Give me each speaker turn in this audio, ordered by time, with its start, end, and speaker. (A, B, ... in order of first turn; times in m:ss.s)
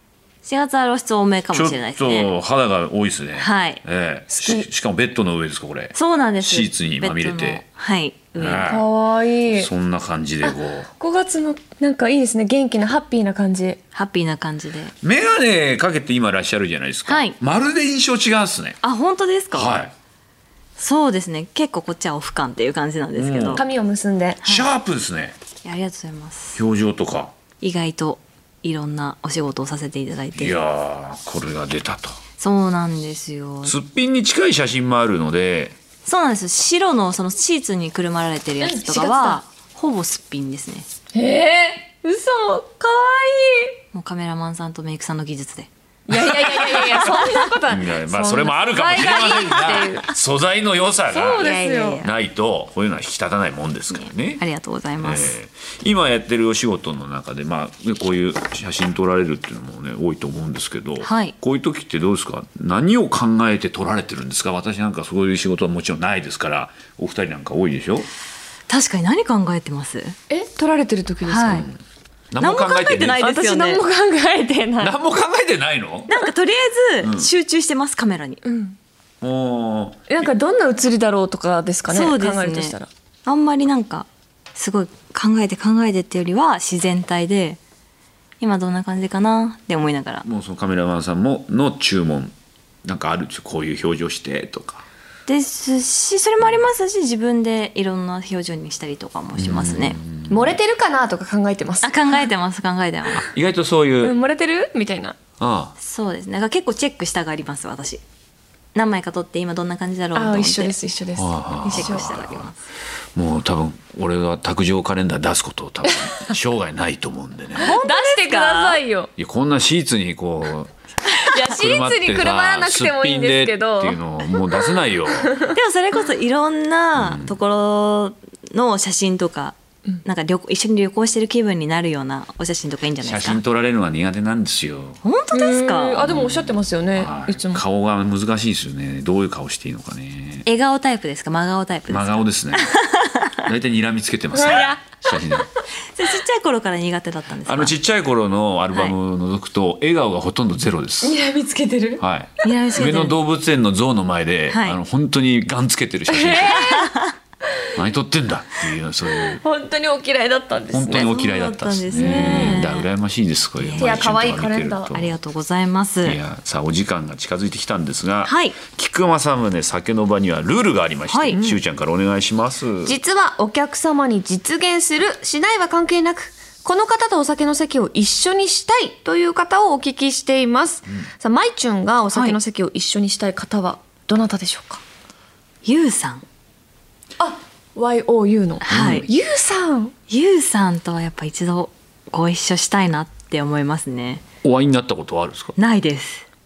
0:00.4-0:02.3 A
0:01.5-0:07.6 B
0:03.4-0:04.6 A
0:05.9-0:08.7 A
0:08.3-0:08.9 B
0:08.6-0:09.7 C
0:09.5-0:10.9 B
0:10.4-0:13.8 C
0:13.9-0:14.9 A
0:15.0-0:18.8 B
0:17.1-0:17.4 A
0:18.8-0:19.7 A
0:19.5-0:19.9 B
0:20.8-0:23.6 A
0:23.1-0:23.6 B
0:23.5-0:24.4 C
0:24.4-0:25.4 B
0:24.4-0:24.7 A
0:25.6-0:26.6 A
0:26.6-0:27.3 B
0:27.6-0:30.6 A
0:30.3-0:32.2 B
0:32.4-0:33.8 A
0:33.6-0:35.7 B
0:36.0-0:40.9 A
0:38.6-0:39.4 C
0:41.1-0:43.8 C
0:43.9-0:45.7 A
0:46.1-0:50.1 C
0:46.3-0:47.4 A
0:47.6-0:54.4 B
0:49.1-0:49.9 A
0:51.1-0:52.0 C
0:51.4-0:52.1 A
0:53.9-0:55.4 A
0:55.0-1:08.1 B
1:01.0-1:01.3 A
1:08.7-1:10.2 A
1:10.3-1:11.6 C
1:11.2-1:11.7 A
1:12.3-1:13.2 B
1:12.4-1:13.8 A
1:13.2-1:15.0 C
1:14.8-1:16.1 B
1:16.1-1:18.4 A
1:17.0-1:17.3 B
1:18.4-1:18.8 C
1:19.2-1:20.2 B
1:20.1-1:22.9 C
1:21.9-1:27.6 A
1:28.4-1:30.2 A
1:30.2-1:32.3 B
1:32.8-1:34.8 B
1:35.3-1:40.0 A
1:39.4-1:40.5 B
1:40.3-1:42.2 C
1:41.8-1:43.3 A
1:43.2-1:44.2 B
1:44.0-1:45.2 C
1:45.4-1:45.7 B
1:45.8-1:48.0 A
1:48.7-1:50.8 A
1:50.1-1:52.2 C
1:51.2-1:52.5 B
1:51.6-1:52.6 A
1:53.1-1:57.8 B
1:55.9-1:56.3 C
1:57.6-1:58.8 A
1:57.6-1:59.1 C
1:59.2-2:00.7 B
2:01.3-2:04.0 C
2:01.4-2:05.4 B
2:05.4-2:13.4 A
2:07.0-2:07.3 B
2:13.0-2:15.0 B
2:15.0-2:16.2 A
2:15.3-2:17.6 C
2:16.0-2:20.4 B
2:20.4-2:23.4 A
2:21.9-2:22.8 B
2:23.3-2:25.5 B
2:24.3-2:24.8 C
2:25.9-2:27.8 A
2:27.4-2:31.2 B
2:31.0-2:32.0 C
2:32.0-2:36.8 B
2:32.4-2:33.2 A
2:34.5-2:34.8 A
2:36.1-2:36.9 C
2:36.5-2:37.1 A
2:37.7-2:39.4 B
2:39.4-2:41.2 C
2:40.7-2:45.2 B
2:40.9-2:42.9 A
2:42.0-2:42.7 C
2:43.6-2:44.2 A
2:43.8-2:44.9 C
2:44.9-2:46.2 A
2:46.0-2:53.0 B
2:48.2-2:48.6 A
2:51.1-2:51.4 A
2:51.3-2:51.6 C
2:52.8-3:04.8 C
3:02.1-3:02.4 A
3:05.6-3:06.2 A
3:07.2-3:09.9 C
3:08.6-3:09.0 A
3:08.7-3:09.1 B
3:10.1-3:14.2 A
3:14.4-3:15.6 B
3:15.6-3:16.2 A